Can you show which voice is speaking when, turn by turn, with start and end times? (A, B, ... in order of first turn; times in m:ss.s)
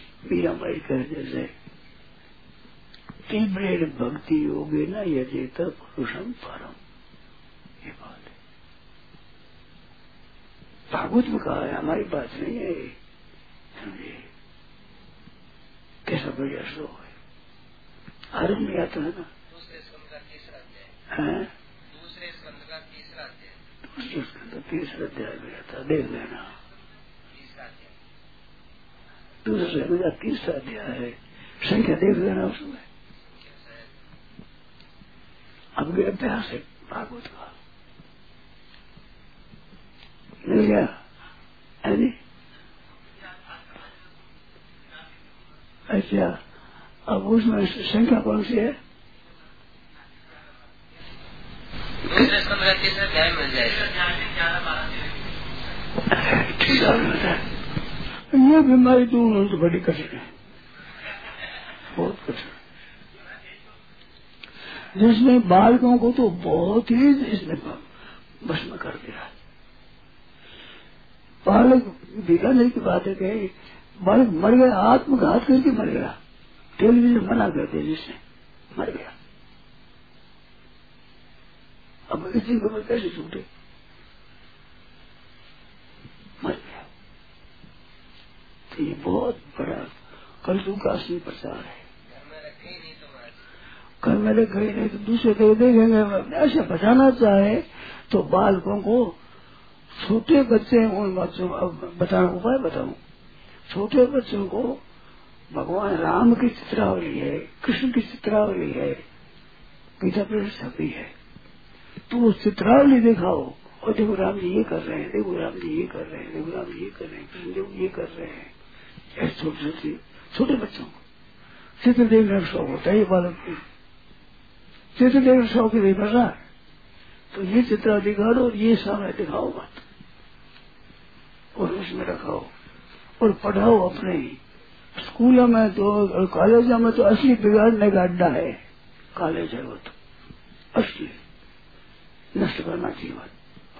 0:00.3-0:01.5 A
0:03.3-0:06.8 A
0:07.8-0:08.3 A
0:10.9-0:12.9 A
0:13.8-0:14.3 A
0:16.1-0:17.1 A
0:18.3-0:19.3 A
0:19.5-0:20.9 B
0:21.1-0:21.5 A
0:21.9-0:23.6 B
0:23.9-0:26.5 A
0:27.3-0:27.9 B
0:29.4-0:32.8 A
0:33.3-0:33.8 B
0:35.8-0:37.5 A
0:40.4-0:40.9 A
0:41.8-0:42.2 A
0:45.9-0:46.4 A
0:47.1-0:48.8 A
0:52.1-0:54.5 B
0:56.1-0:57.4 A
0:58.3-1:00.3 A
1:01.9-1:02.6 A
1:05.0-1:07.8 A
1:08.4-1:09.3 A
1:11.4-1:13.5 A
1:14.0-1:16.2 A
1:16.8-1:18.2 A
1:18.7-1:19.1 A
1:22.1-1:23.4 A
1:26.4-1:26.8 A
1:28.7-1:29.9 A
1:30.4-1:31.8 A
1:32.1-1:33.4 B
1:34.0-1:39.1 A
1:40.0-1:43.0 A
1:43.7-1:44.8 A
1:45.5-1:49.0 A
1:50.0-1:51.1 A
1:52.1-1:58.5 A
1:59.2-2:01.0 A
2:01.8-2:03.6 A
2:05.0-2:06.4 A
2:07.3-2:09.8 A
2:11.6-2:12.5 A
2:13.2-2:14.4 A
2:15.0-2:18.6 A
2:19.1-2:20.0 A
2:20.7-2:21.2 A
2:22.4-2:23.3 A